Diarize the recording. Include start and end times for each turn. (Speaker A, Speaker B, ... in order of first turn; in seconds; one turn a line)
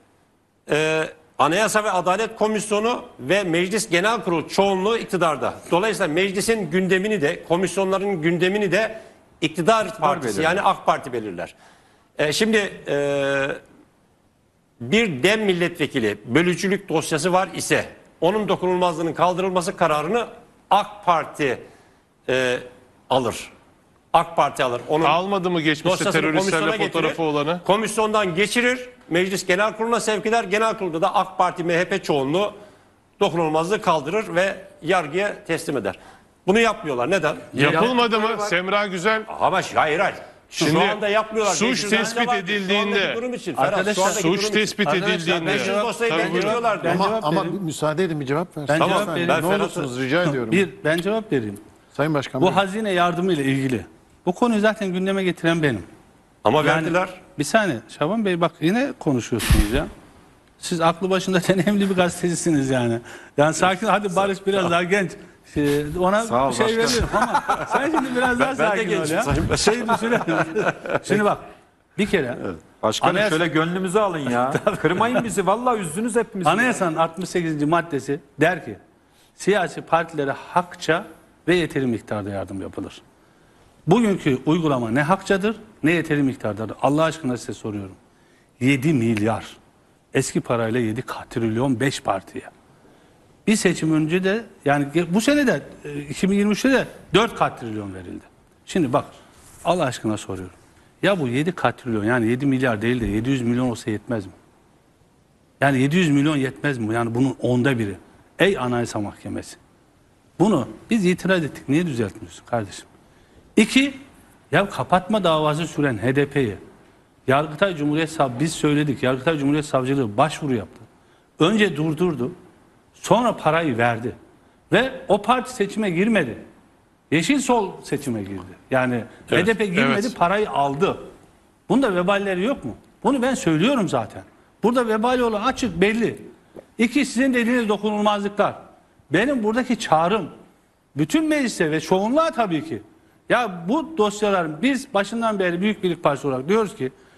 Speaker A: 0.7-11.5
Speaker B: 9.9-10.6
Speaker A: 12.2-13.6
Speaker A: 14.8-21.6
Speaker A: 22.3-23.5
Speaker A: 24.1-25.2
Speaker C: 25.0-27.6
Speaker A: 25.8-32.5
Speaker A: 33.2-37.9
Speaker C: 37.5-39.3
Speaker D: 37.6-37.9
Speaker B: 37.6-38.5
Speaker A: 39.3-47.1
Speaker C: 40.6-43.2
Speaker D: 41.9-42.2
Speaker D: 43.5-44.4
Speaker C: 44.0-46.6
Speaker D: 45.5-47.6
Speaker E: 46.8-50.6
Speaker D: 48.7-49.6
Speaker A: 48.8-49.9
Speaker D: 50.2-51.6
Speaker E: 51.9-52.6
Speaker D: 52.4-55.9
Speaker A: 56.4-57.2
Speaker D: 56.6-59.9
Speaker D: 60.6-72.4
Speaker B: 66.2-67.1
Speaker A: 67.2-67.7
Speaker A: 68.2-71.2
Speaker B: 72.8-76.8
Speaker D: 73.0-73.4
Speaker D: 74.3-75.2
Speaker D: 76.4-78.8
Speaker D: 79.3-83.0
Speaker D: 83.8-88.0
Speaker D: 88.6-89.6
Speaker D: 90.1-92.5
Speaker D: 93.5-99.1
Speaker D: 99.6-104.3
Speaker D: 105.6-109.6
Speaker D: 110.4-112.9
Speaker D: 113.5-116.6
Speaker D: 117.3-120.9
Speaker D: 121.4-122.3
Speaker D: 123.0-124.2
Speaker D: 124.7-126.4
Speaker D: 127.1-131.1
Speaker C: 129.3-130.1
Speaker D: 131.7-136.2
Speaker D: 136.8-138.6
Speaker D: 139.1-140.3
Speaker D: 140.9-146.9